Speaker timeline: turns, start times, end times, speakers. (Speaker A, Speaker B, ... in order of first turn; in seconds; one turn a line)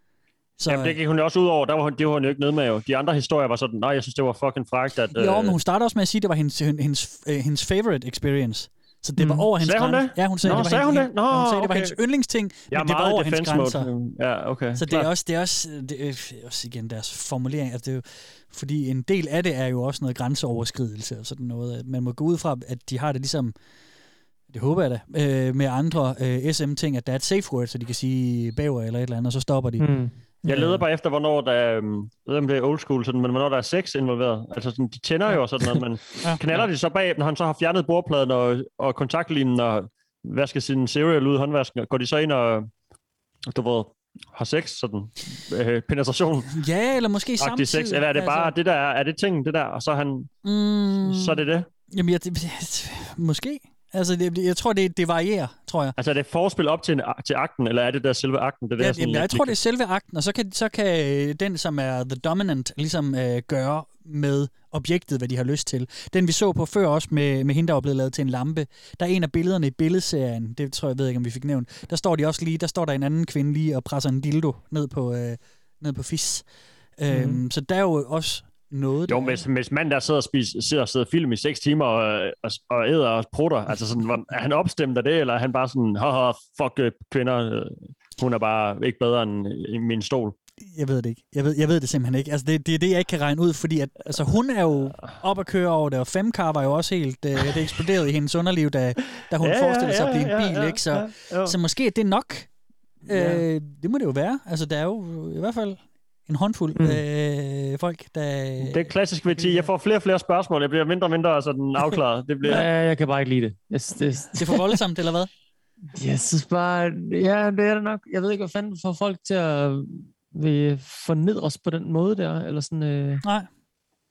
Speaker A: 0.6-1.0
Speaker B: 0.7-5.6
Speaker A: 5.1-13.9
Speaker C: 9.2-9.5
Speaker B: 9.6-12.0
Speaker B: 12.7-15.1
Speaker A: 14.8-23.5
Speaker A: 24.5-29.9
Speaker C: 29.8-30.7
Speaker A: 30.5-30.8
Speaker B: 30.5-42.7
Speaker B: 43.5-46.6
Speaker A: 46.5-48.5
Speaker B: 47.4-50.3
Speaker A: 50.4-51.4
Speaker B: 51.0-51.7
Speaker A: 51.9-55.9
Speaker B: 56.0-59.5
Speaker A: 58.8-76.5
Speaker A: 77.0-79.4
Speaker C: 77.1-77.4
Speaker B: 79.1-90.3
Speaker A: 90.6-102.5
Speaker B: 99.4-101.6
Speaker A: 103.1-108.9
Speaker C: 106.8-107.0
Speaker B: 108.6-112.7
Speaker C: 112.5-114.8
Speaker A: 114.4-115.3
Speaker C: 116.0-123.2
Speaker A: 123.2-123.5